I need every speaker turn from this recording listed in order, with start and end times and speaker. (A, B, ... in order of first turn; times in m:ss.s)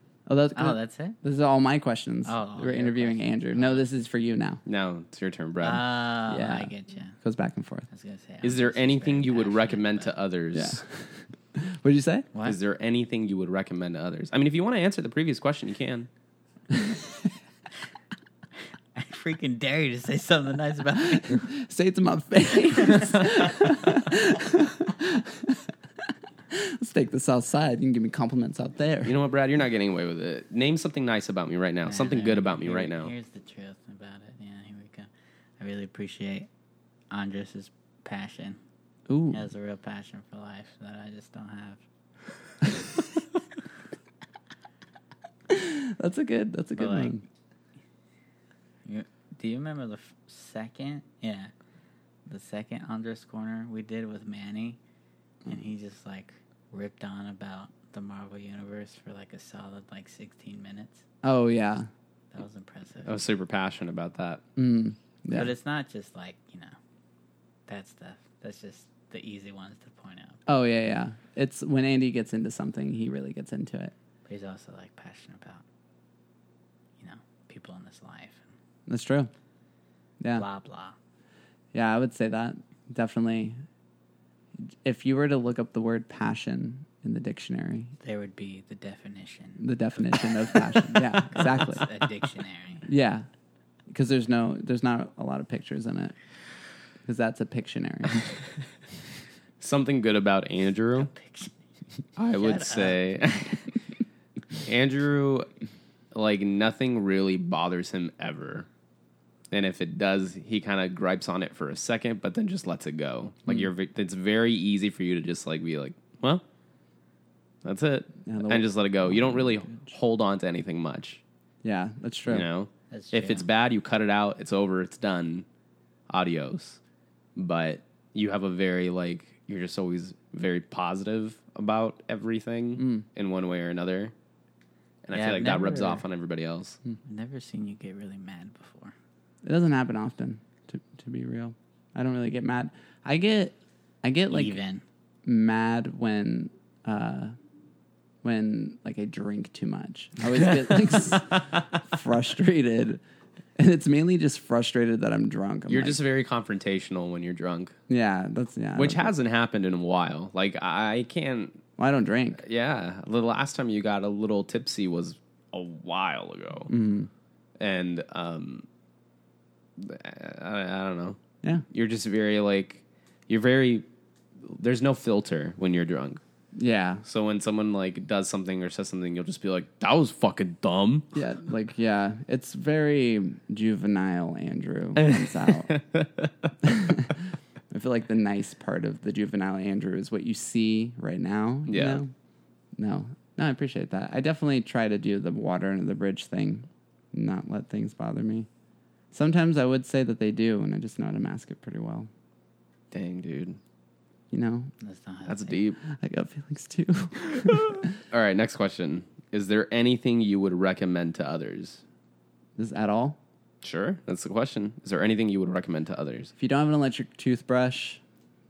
0:00.3-0:04.6 A
0:00.5-0:01.2 B
0:02.2-0:03.8 B
0:04.6-0:05.8 C
0:05.6-0:07.2 B
0:06.3-0:07.9 A
0:07.9-0:10.1 B
0:08.4-0:10.8 C
0:10.5-0:12.3 A
0:12.4-0:16.1 C
0:16.7-0:17.1 A
0:18.9-0:21.5 B
0:21.1-0:29.1 A
0:29.0-0:33.1 C
0:31.8-0:36.5 B
0:37.1-0:38.6 B
0:39.1-0:39.5 A
0:39.3-0:41.8 B
0:45.5-0:47.2 A
0:46.8-0:47.2 B
0:48.8-0:51.5 B
0:52.2-0:54.8 B
0:55.4-1:01.0 B
1:01.2-1:01.9 A
1:02.3-1:03.2 B
1:03.0-1:04.4 C
1:04.6-1:05.5 A
1:05.3-1:06.8 B
1:07.7-1:10.4 B
1:10.5-1:13.9 A
1:14.2-1:15.6 B
1:17.0-1:18.5 B
1:18.9-1:19.3 A
1:20.2-1:20.4 A
1:20.3-1:21.0 B
1:21.7-1:23.6 A
1:24.8-1:27.9 A
1:28.0-1:32.9 B
1:29.6-1:31.8 A
1:32.9-1:33.3 A
1:33.9-1:36.2 A
1:37.0-1:38.3 A
1:39.6-1:41.1 C
1:41.0-1:41.6 B
1:42.2-1:43.7 C
1:42.4-1:43.5 B
1:44.6-1:45.5 C
1:46.1-1:48.7 C
1:49.5-1:56.4 C
1:57.6-2:01.2 C
1:58.2-1:59.9 A
2:01.6-2:02.5 A
2:02.3-2:05.4 C
2:02.9-2:03.4 B
2:06.1-2:06.8 C
2:07.4-2:14.1 C
2:12.8-2:13.0 A
2:15.0-2:16.8 C
2:15.1-2:16.0 B
2:17.0-2:18.9 B
2:19.4-2:24.6 A
2:24.3-2:24.8 B
2:25.2-2:27.3 A
2:28.2-2:33.0 A
2:33.6-2:36.0 A
2:35.7-2:37.7 C
2:37.9-2:39.1 A
2:38.8-2:41.6 C
2:41.8-2:42.4 A
2:42.4-2:46.7 C
2:46.7-2:47.1 A
2:47.6-2:48.6 C
2:49.8-2:51.2 C
2:51.7-2:53.8 C
2:54.4-2:56.2 C
2:56.6-2:57.0 A
2:57.0-3:01.1 C
3:01.1-3:05.7 A
3:05.0-3:06.5 C
3:06.6-3:12.1 A
3:11.7-3:12.0 C
3:12.8-3:18.5 A
3:19.1-3:22.1 A
3:22.9-3:23.6 C
3:24.3-3:24.7 A
3:24.8-3:25.6 B
3:25.3-3:25.8 C
3:25.8-3:27.9 A
3:27.9-3:31.8 C
3:32.6-3:33.2 A
3:33.6-3:36.3 C
3:36.4-3:38.0 A